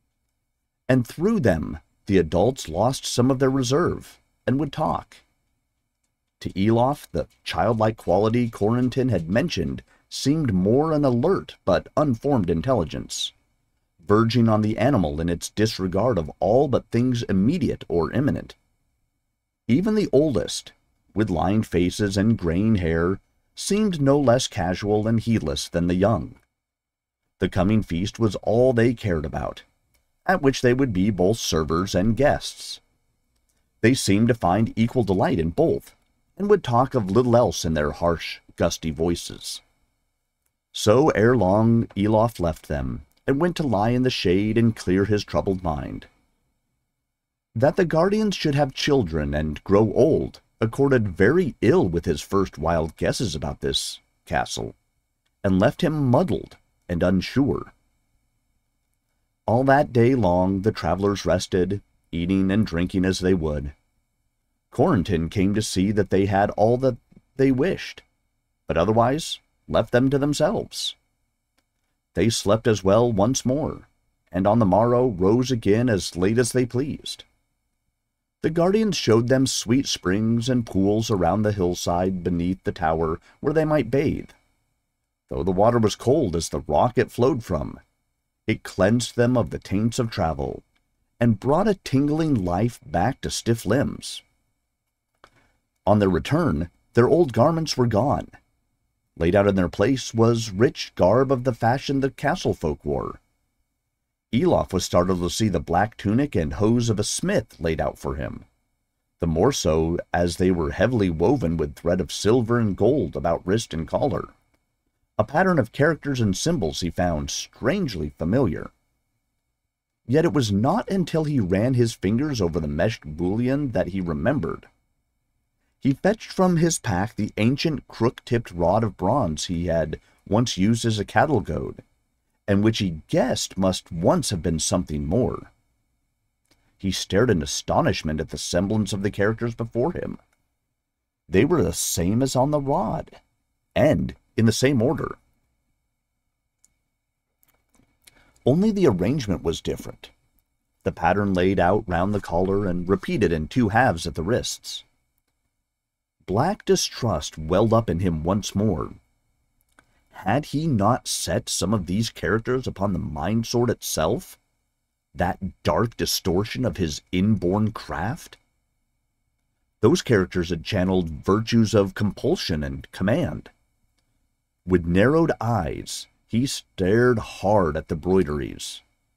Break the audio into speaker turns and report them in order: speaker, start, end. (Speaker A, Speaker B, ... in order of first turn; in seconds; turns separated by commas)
Speaker A: 0.9-5.2, Speaker A: 6.4-13.3, Speaker A: 14.0-18.6, Speaker A: 19.7-26.4, Speaker A: 27.4-29.6, Speaker A: 30.2-32.8, Speaker A: 33.8-39.6, Speaker A: 40.7-46.1, Speaker A: 47.5-54.8, Speaker A: 55.4-57.7, Speaker A: 59.5-63.7, Speaker A: 64.7-68.0, Speaker A: 68.7-71.0, Speaker A: 72.1-77.2, Speaker A: 78.4-84.3, Speaker A: 85.3-87.8, Speaker A: 88.5-90.6, Speaker A: 91.2-94.2, Speaker A: 95.8-98.3, Speaker A: 99.2-103.2, Speaker A: 104.3-108.4, Speaker A: 109.2-114.3, Speaker A: 115.2-118.7, Speaker A: 120.1-124.7, Speaker A: 125.8-131.8, Speaker A: 132.5-135.5, Speaker A: 136.8-140.2, Speaker A: 141.3-143.2, Speaker A: 143.8-145.2, Speaker A: 148.4-150.1, Speaker A: 150.8-154.8, Speaker A: 156.2-159.0, Speaker A: 160.1-164.4, Speaker A: 165.1-168.4, Speaker A: 169.8-173.5, Speaker A: 174.7-178.8